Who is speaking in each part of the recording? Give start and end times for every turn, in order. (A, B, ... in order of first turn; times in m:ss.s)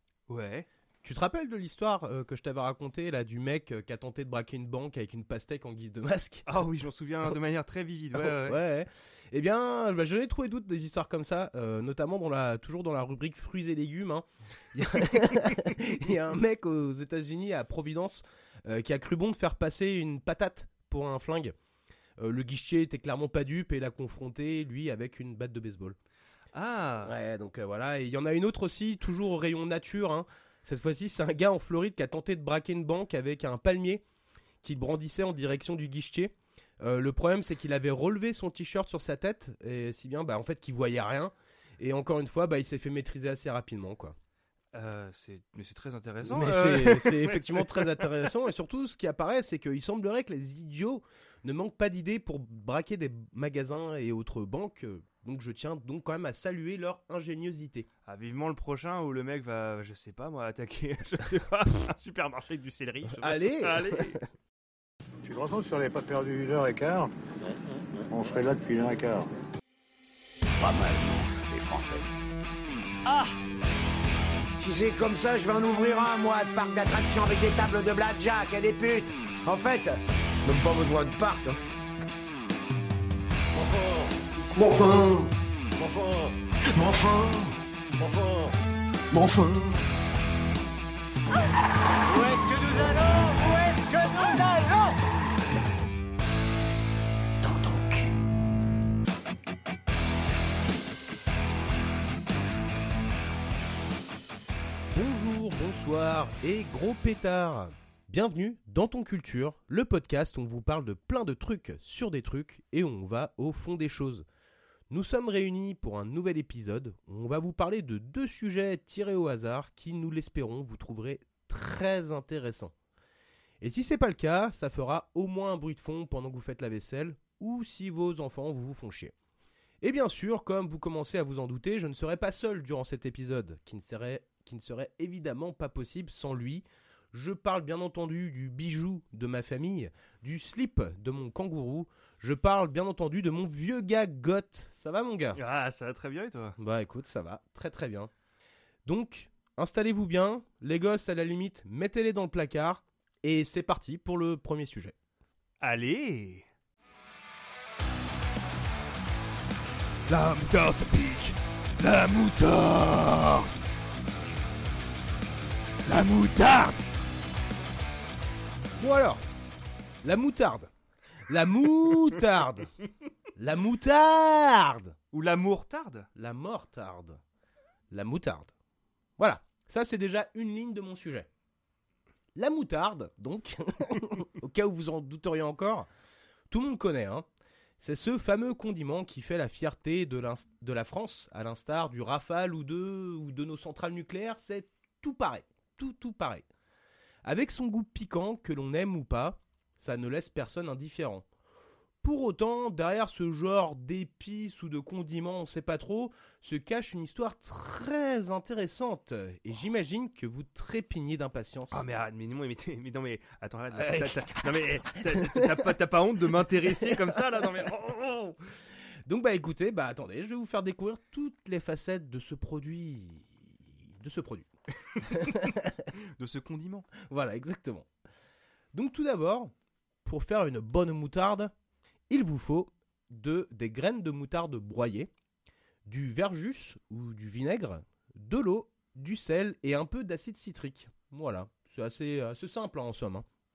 0:00.3-0:00.7 A
0:01.0-0:06.5 B
0:06.4-0:08.6 A
0:08.1-0:21.5 B
0:22.2-0:26.0 B
0:26.5-0:27.1 A
0:27.0-0:34.0 B
0:34.6-0:44.2 B
0:44.7-0:48.1 A
0:46.2-0:57.9 B
0:58.0-1:04.2 A
1:03.1-1:04.2 B
1:05.2-1:07.1 C
1:08.1-1:09.3 C
1:10.6-1:10.9 D
1:10.6-1:12.1 E
1:13.0-1:13.3 D
1:14.6-1:21.6 D
1:23.6-1:24.1 C
1:24.6-1:25.0 D
1:25.8-1:26.3 D
1:25.8-1:26.2 C
1:27.1-1:27.5 E
1:28.0-1:28.4 C
1:28.1-1:28.4 D
1:29.2-1:29.7 E
1:32.0-1:35.0 D
1:37.4-1:37.8 E
1:44.9-1:54.2 B
1:54.9-2:02.7 B
2:03.6-2:09.1 B
2:09.8-2:25.4 B
2:25.3-2:26.6 A
2:26.6-2:28.1 B
2:28.8-2:34.9 B
2:35.6-2:36.4 A
2:40.1-2:43.5 B
2:45.8-2:46.8 B
2:48.8-2:49.2 B
2:50.0-2:50.7 B
2:51.3-2:52.7 B
2:53.4-2:55.0 B
2:55.1-2:56.1 A
2:56.1-2:57.2 B
2:57.9-2:58.5 B
2:59.2-3:01.3 B
3:02.3-3:05.9 B
3:06.5-3:07.2 B
3:07.8-3:16.4 B
3:17.2-3:21.2 B
3:22.0-3:31.8 B
3:31.7-3:38.4 A
3:33.7-3:35.6 B
3:36.8-3:37.0 B
3:39.1-3:44.5 B
3:45.0-3:45.9 B
3:46.0-3:46.9 A
3:47.0-3:47.9 B
3:48.7-3:49.5 B
3:50.0-3:51.5 B
3:52.1-3:55.1 B
3:55.8-4:03.2 B